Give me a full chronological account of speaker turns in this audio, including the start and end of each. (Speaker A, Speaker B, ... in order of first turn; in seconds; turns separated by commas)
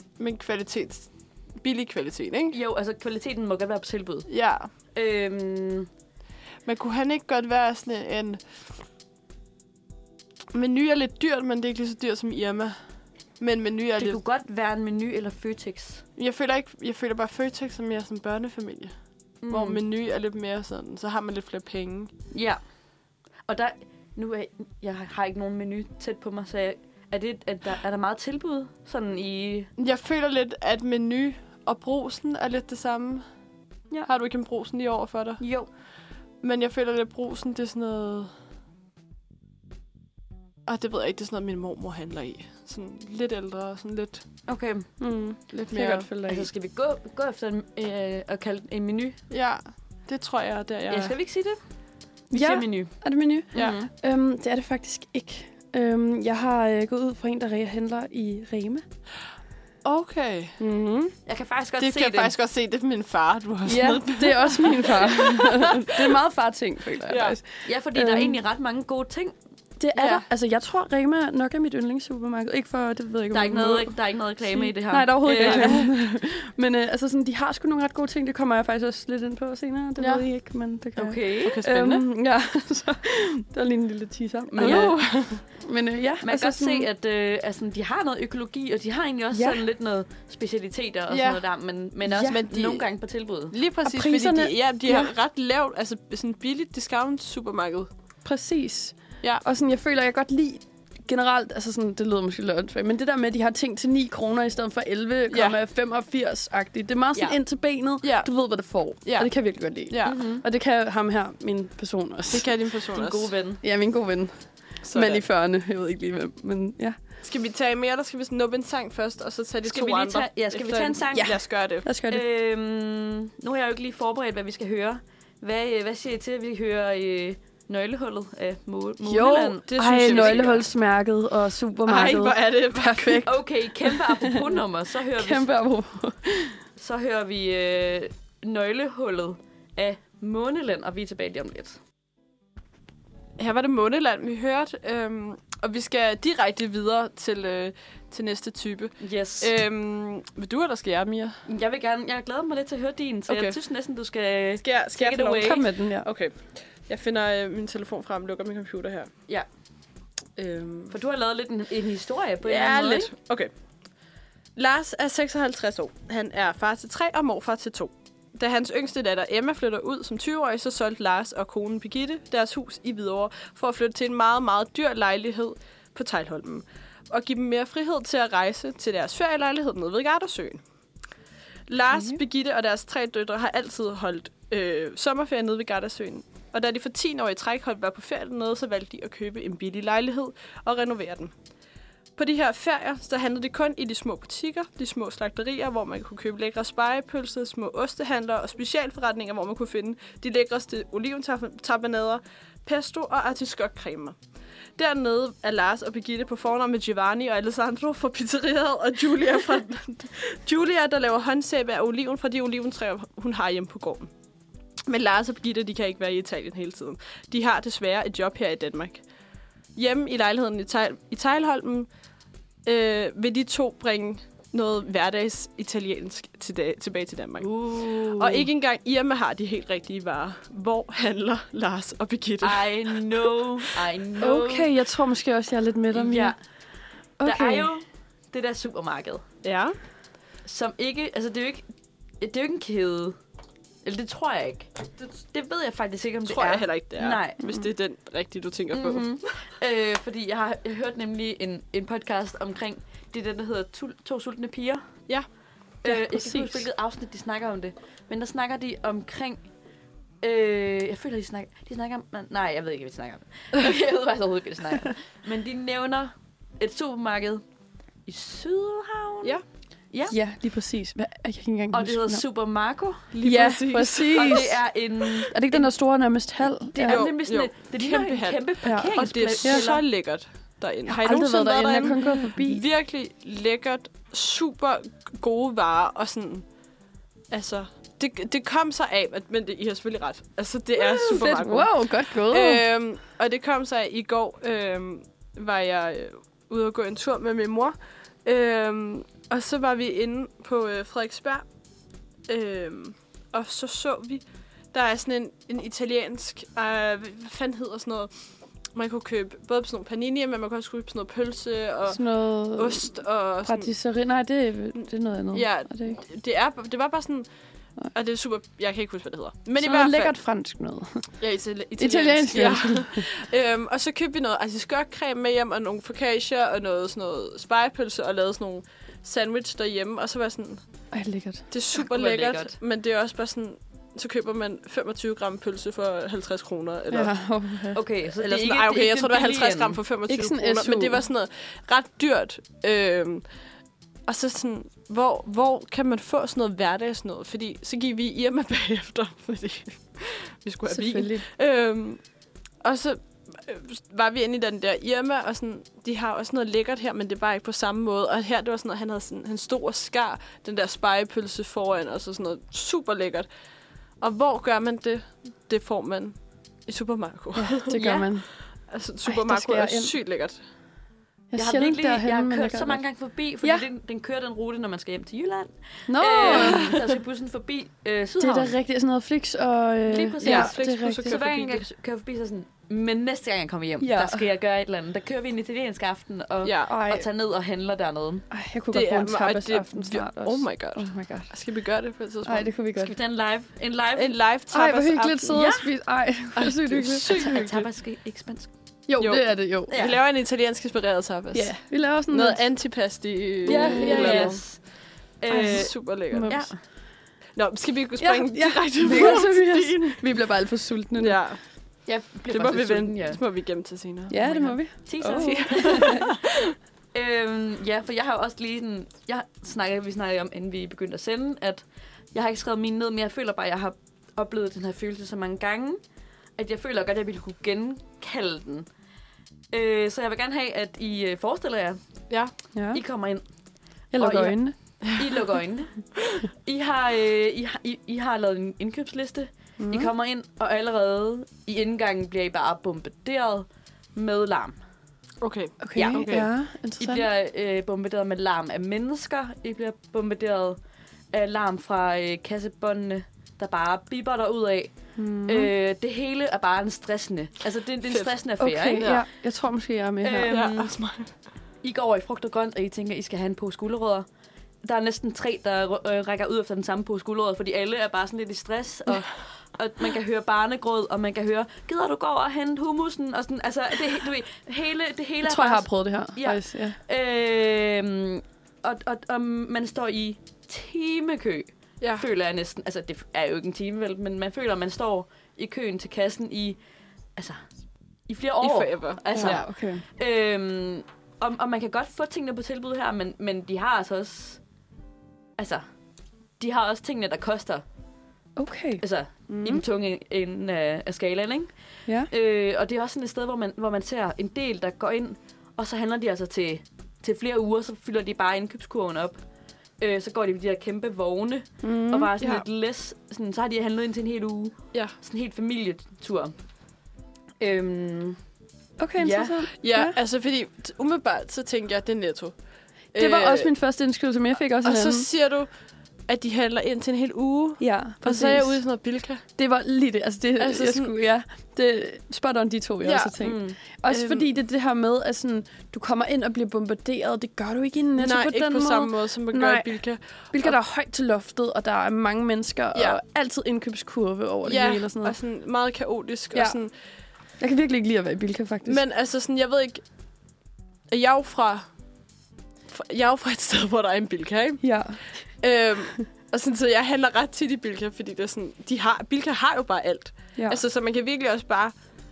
Speaker A: 0.2-2.5, Speaker B: 2.5-4.3, Speaker A: 4.3-4.7, Speaker B: 4.9-5.9, Speaker A: 6.6-8.4, Speaker A: 10.5-12.8, Speaker A: 13.4-14.2, Speaker B: 14.0-16.0, Speaker A: 16.2-18.9, Speaker B: 19.4-19.8, Speaker A: 19.5-22.1, Speaker B: 22.3-22.6, Speaker B: 23.5-29.7, Speaker A: 29.8-33.2, Speaker A: 34.0-35.4, Speaker B: 35.4-35.7, Speaker A: 36.4-38.3, Speaker A: 40.6-44.2, Speaker B: 44.5-44.9, Speaker C: 45.0-46.5, Speaker A: 45.5-46.1, Speaker B: 46.2-49.2, Speaker A: 49.3-51.1, Speaker B: 50.9-51.6, Speaker C: 52.3-58.8, Speaker B: 52.3-52.9, Speaker B: 53.5-53.9, Speaker A: 59.8-60.6, Speaker C: 60.6-61.1, Speaker B: 61.2-62.3, Speaker A: 61.8-66.2, Speaker C: 63.6-68.4, Speaker A: 67.0-67.4, Speaker B: 67.6-69.3, Speaker C: 69.8-86.9, Speaker A: 70.0-70.2, Speaker B: 73.3-75.8, Speaker A: 75.3-75.8, Speaker A: 80.0-80.2, Speaker B: 81.0-81.6, Speaker A: 81.4-82.0, Speaker B: 84.5-84.9, Speaker A: 84.6-85.4, Speaker B: 86.2-93.5, Speaker C: 89.3-89.6, Speaker A: 91.1-91.4, Speaker A: 92.2-92.8, Speaker A: 93.5-97.9, Speaker C: 93.8-95.1, Speaker C: 98.2-112.5, Speaker A: 105.3-105.6, Speaker A: 108.0-108.3, Speaker A: 109.0-109.3, Speaker A: 109.9-110.2, Speaker B: 110.0-110.4, Speaker A: 112.3-113.3, Speaker B: 112.9-113.6, Speaker C: 113.6-117.0, Speaker A: 114.8-115.2, Speaker A: 117.2-121.9, Speaker B: 119.6-121.5, Speaker C: 121.2-122.2, Speaker B: 122.1-130.6, Speaker C: 129.0-134.4, Speaker A: 129.7-130.6, Speaker A: 131.8-133.2, Speaker B: 133.2-135.5, Speaker C: 135.1-136.6, Speaker B: 136.8-141.8, Speaker A: 143.4-151.4, Speaker B: 149.0-149.5, Speaker B: 151.4-155.6, Speaker A: 153.3-153.6, Speaker A: 154.6-159.1, Speaker C: 155.4-156.1, Speaker A: 160.4-160.9, Speaker B: 160.9-163.1, Speaker A: 162.4-163.5, Speaker A: 164.6-180.6, Speaker A: 181.7-191.3, Speaker A: 192.2-204.2, Speaker A: 204.8-214.1, Speaker A: 214.9-219.0, Speaker A: 219.7-221.9, Speaker A: 222.7-233.0, Speaker B: 227.4-228.5, Speaker B: 232.4-234.7, Speaker C: 234.2-236.3, Speaker B: 235.9-236.4, Speaker C: 237.2-237.7, Speaker B: 237.2-239.2, Speaker A: 239.4-239.8, Speaker B: 240.4-241.6, Speaker B: 242.2-243.2, Speaker B: 243.8-247.4, Speaker A: 246.3-249.2, Speaker B: 248.7-254.8, Speaker B: 255.8-259.4, Speaker C: 255.8-256.6, Speaker B: 260.2-267.4, Speaker B: 268.1-270.2, Speaker C: 270.1-272.2, Speaker B: 271.7-273.1, Speaker A: 273.1-274.5, Speaker C: 273.2-277.1, Speaker B: 274.1-275.7, Speaker B: 276.7-279.8, Speaker A: 276.8-286.4, Speaker C: 278.6-279.7, Speaker C: 280.9-282.6, Speaker A: 287.3-301.4, Speaker C: 290.8-292.6, Speaker A: 302.3-308.1, Speaker A: 308.7-313.7, Speaker C: 311.9-312.9, Speaker C: 313.4-316.0, Speaker A: 315.3-317.2, Speaker A: 317.9-320.1, Speaker C: 319.6-321.1, Speaker A: 321.2-330.6, Speaker C: 321.8-323.1, Speaker C: 330.9-331.5, Speaker A: 331.5-337.1, Speaker B: 331.8-332.5, Speaker C: 336.9-337.8, Speaker B: 337.7-339.8, Speaker A: 338.1-343.3, Speaker C: 340.1-341.1, Speaker A: 344.1-352.0, Speaker C: 350.7-351.2, Speaker A: 352.6-363.3, Speaker A: 364.0-366.1, Speaker A: 366.7-367.8, Speaker C: 367.4-368.3, Speaker B: 367.7-368.1, Speaker A: 368.7-370.4, Speaker C: 369.0-369.9, Speaker C: 371.3-372.8, Speaker B: 371.4-378.5, Speaker C: 375.9-376.7, Speaker A: 376.3-376.6, Speaker C: 378.2-381.2, Speaker B: 379.9-388.2, Speaker A: 380.2-381.6, Speaker C: 383.8-384.2, Speaker A: 386.4-386.8, Speaker C: 386.7-387.1, Speaker C: 388.3-391.3, Speaker A: 388.7-392.5, Speaker C: 392.2-392.9, Speaker B: 392.8-394.2, Speaker A: 393.9-395.6, Speaker C: 394.5-397.4, Speaker B: 395.3-395.6, Speaker A: 396.4-397.7, Speaker B: 397.1-398.5, Speaker C: 398.9-399.8, Speaker A: 399.0-404.4, Speaker B: 399.7-399.9, Speaker C: 401.3-402.4, Speaker C: 403.4-404.4, Speaker B: 403.4-404.6, Speaker B: 405.2-406.6, Speaker A: 405.3-406.4, Speaker C: 405.3-406.5, Speaker A: 407.4-410.0, Speaker C: 408.0-411.2, Speaker A: 411.0-411.4, Speaker B: 411.9-413.2, Speaker A: 412.2-414.2, Speaker C: 414.1-416.1, Speaker B: 414.1-416.2, Speaker A: 415.0-416.5, Speaker B: 416.9-425.8, Speaker B: 426.4-428.7, Speaker B: 429.5-431.8, Speaker C: 432.5-432.8, Speaker B: 432.7-433.2, Speaker C: 433.9-434.6, Speaker B: 434.0-444.6, Speaker C: 439.6-439.9, Speaker A: 445.2-446.3, Speaker C: 445.6-447.1, Speaker B: 445.7-446.3, Speaker B: 446.8-450.6, Speaker B: 451.1-454.7, Speaker C: 454.9-455.5, Speaker B: 455.2-458.9, Speaker A: 457.9-458.1, Speaker C: 458.4-460.3, Speaker A: 458.8-459.0, Speaker B: 460.0-460.7, Speaker A: 460.3-461.1, Speaker B: 461.6-464.1, Speaker B: 464.6-486.6, Speaker C: 475.2-476.8, Speaker B: 487.1-487.4, Speaker B: 488.1-494.4, Speaker A: 488.4-489.5, Speaker C: 489.1-489.8, Speaker B: 495.4-495.6, Speaker B: 496.4-497.6, Speaker C: 498.4-499.6, Speaker B: 498.8-501.5, Speaker B: 502.1-509.2, Speaker B: 509.8-516.3, Speaker C: 511.6-512.1, Speaker B: 517.4-518.2, Speaker C: 518.8-519.9, Speaker B: 519.0-519.4, Speaker A: 519.6-522.3, Speaker A: 522.9-523.5, Speaker C: 522.9-525.1, Speaker A: 524.6-525.5, Speaker A: 526.1-529.2, Speaker C: 527.6-528.6, Speaker C: 529.4-545.2, Speaker A: 530.4-530.9, Speaker A: 532.8-533.2, Speaker B: 533.2-533.6, Speaker A: 533.9-534.3, Speaker A: 538.0-540.6, Speaker A: 542.7-543.0, Speaker A: 544.5-546.7, Speaker C: 547.4-548.8, Speaker A: 548.6-549.8, Speaker A: 550.9-551.6, Speaker A: 552.7-554.6, Speaker C: 554.6-555.0, Speaker A: 555.4-561.7